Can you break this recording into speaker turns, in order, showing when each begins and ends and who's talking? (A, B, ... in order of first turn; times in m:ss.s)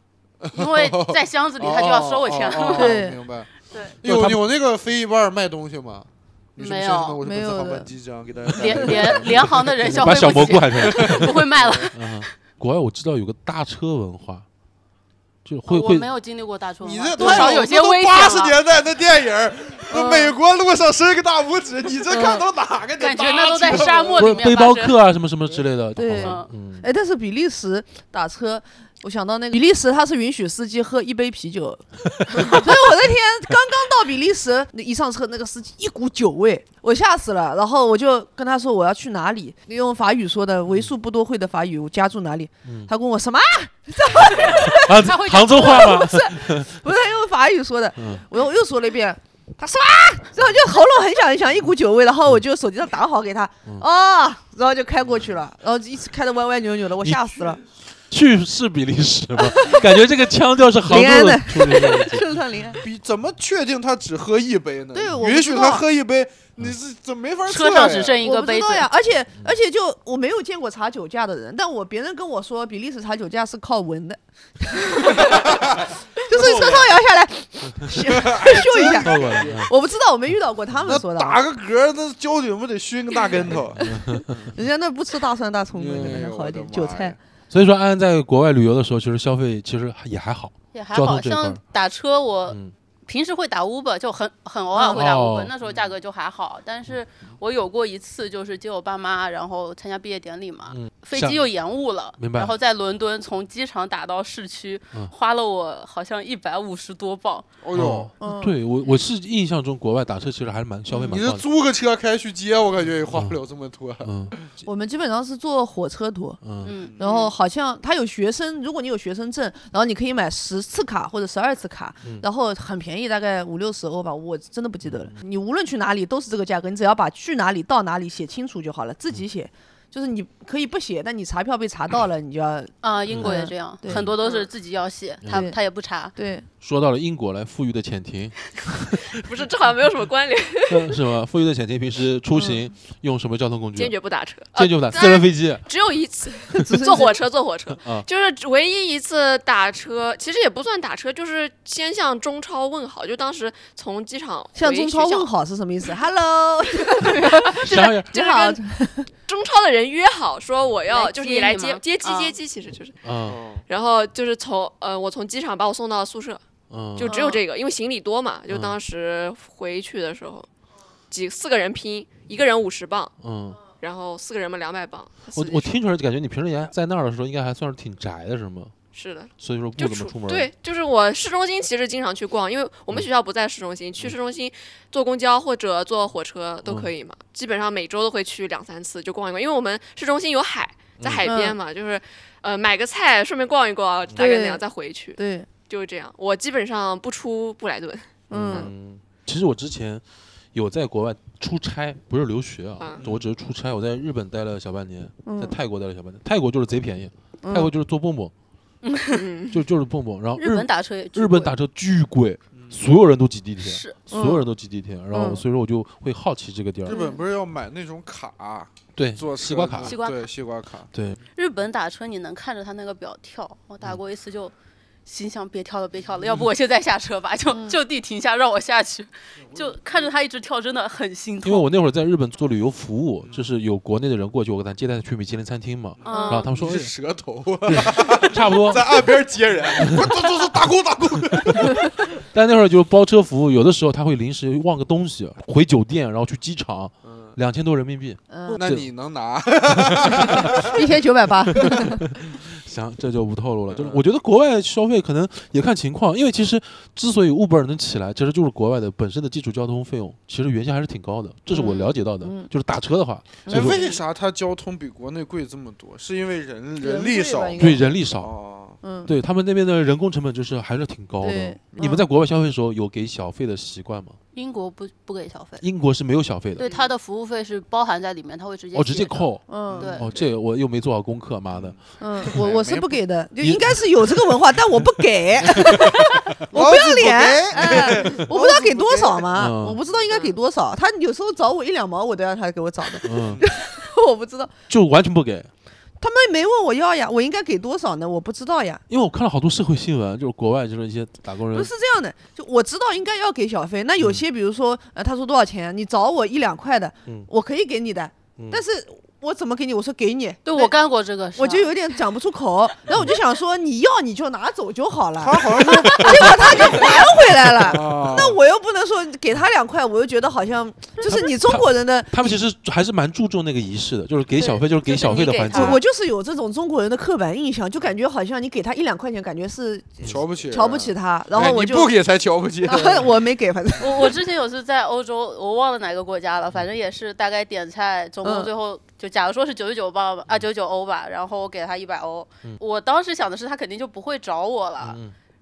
0:00.4-0:03.5 A
0:00.5-0:03.0 B
0:02.7-0:03.2 C
0:03.7-0:04.0 B
0:04.0-0:11.9 A
0:04.0-0:04.4 D
0:06.6-0:07.2 B
0:07.2-0:07.9 C
0:08.5-0:12.2 B
0:09.8-0:14.4 D
0:15.4-0:16.1 D
0:15.7-0:18.6 B
0:16.8-0:24.5 A
0:17.2-0:17.6 C
0:19.9-0:20.3 C
0:22.1-0:22.5 C
0:23.0-0:25.0 B
0:24.2-0:26.9 D
0:26.0-0:57.6 C
0:26.2-0:26.5 B
0:42.6-0:42.9 D
0:44.5-0:46.7 D
0:45.0-0:46.0 B
0:48.0-0:48.2 D
0:57.0-0:57.4 D
0:58.1-1:02.3 D
0:59.4-0:59.9 C
1:00.9-1:02.8 C
1:02.8-1:08.2 A
1:04.9-1:05.8 C
1:07.5-1:08.9 B
1:08.2-1:15.7 C
1:15.1-1:15.8 A
1:16.2-1:21.4 C
1:16.3-1:16.9 A
1:18.1-1:19.6 A
1:18.6-1:19.7 D
1:20.9-1:24.2 A
1:23.8-1:24.5 D
1:23.8-1:27.2 C
1:25.7-1:27.2 A
1:27.5-1:31.6 D
1:30.7-1:47.5 B
1:32.5-1:32.7 D
1:34.7-1:35.1 C
1:34.9-1:35.5 D
1:35.6-1:35.9 A
1:40.7-1:41.4 D
1:42.2-1:42.6 D
1:47.6-1:48.1 A
1:47.7-1:51.4 D
1:48.2-1:48.6 C
1:51.0-1:54.1 A
1:53.1-1:53.4 D
1:54.0-1:54.4 D
1:54.6-1:56.4 C
1:56.4-1:56.8 D
1:56.6-1:57.3 B
1:57.0-2:14.1 C
2:04.8-2:05.1 D
2:12.8-2:16.1 B
2:13.1-2:14.1 D
2:14.2-2:14.5 E
2:15.2-2:15.5 D
2:15.3-2:15.6 C
2:16.2-2:16.5 C
2:16.6-2:19.2 D
2:19.1-2:21.0 E
2:20.7-2:24.0 D
2:22.3-2:22.6 C
2:23.8-2:35.3 E
2:24.5-2:25.7 D
2:26.5-2:27.2 C
2:27.8-2:28.1 D
2:34.6-2:39.1 C
2:37.0-2:37.4 E
2:37.5-2:38.2 D
2:38.1-2:38.6 E
2:39.3-2:43.0 E
2:40.9-2:42.4 B
2:43.0-2:43.4 D
2:43.3-2:43.6 A
2:43.5-2:46.4 E
2:46.7-2:47.1 D
2:47.0-2:50.5 E
2:47.1-2:47.4 C
2:48.5-2:48.8 D
2:51.1-2:55.8 E
2:53.2-2:53.6 D
2:55.3-2:58.7 D
2:58.9-3:18.7 E
2:59.4-3:00.5 D
3:06.6-3:06.9 D
3:11.0-3:11.3 D
3:11.3-3:11.6 C
3:14.2-3:14.6 C
3:15.2-3:15.5 C
3:18.3-3:18.7 C
3:18.3-3:28.3 D
3:23.0-3:23.3 A
3:25.2-3:25.6 C
3:27.4-3:27.7 C
3:28.8-3:29.3 B
3:29.1-3:29.6 E
3:29.5-3:37.0 D
3:30.4-3:31.5 B
3:33.6-3:34.0 B
3:34.1-3:34.5 C
3:35.1-3:35.4 C
3:36.8-3:40.9 A
3:36.9-3:37.2 C
3:39.0-3:40.0 D
3:39.8-3:40.3 B
3:40.9-3:41.2 D
3:41.4-3:44.5 B
3:45.1-3:51.7 B
3:47.5-3:47.8 C
3:51.4-3:56.9 D
3:56.0-3:56.5 B
3:56.1-3:56.5 C
3:56.3-4:01.9 A
3:57.7-3:59.0 D
3:59.8-4:00.1 D
4:02.3-4:08.9 D
4:07.0-4:07.3 A
4:08.3-4:08.6 C
4:08.5-4:10.7 A
4:09.9-4:10.7 D
4:10.6-4:12.0 C
4:12.2-4:23.8 D
4:13.7-4:14.0 A
4:21.5-4:22.5 C
4:23.4-4:23.8 C
4:23.5-4:28.8 A
4:26.8-4:28.0 C
4:27.6-4:28.3 D
4:28.8-4:29.1 C
4:29.1-4:34.2 D
4:31.2-4:32.0 C
4:34.3-4:35.6 B
4:35.6-4:36.6 D
4:36.6-4:40.3 B
4:38.7-4:42.4 D
4:39.5-4:39.9 C
4:39.7-4:40.0 A
4:41.5-4:43.0 A
4:42.0-4:54.5 C
4:43.4-4:44.3 D
4:45.5-4:45.8 D
4:46.5-4:49.3 A
4:47.8-4:48.2 D
4:49.4-4:49.8 D
4:53.0-4:53.4 D
4:53.1-4:53.5 A
4:54.7-4:55.5 D
4:56.0-4:58.8 C
4:58.9-5:01.7 D
5:01.5-5:10.8 C
5:08.4-5:08.6 D
5:10.4-5:11.7 B
5:11.4-5:22.4 C
5:15.2-5:18.4 A
5:21.0-5:25.8 D
5:24.9-5:25.8 B
5:25.0-5:25.3 E
5:25.5-5:32.0 C
5:30.0-5:33.2 A
5:32.6-5:34.2 C
5:33.8-5:45.0 B
5:38.2-5:38.5 C
5:44.8-5:45.1 D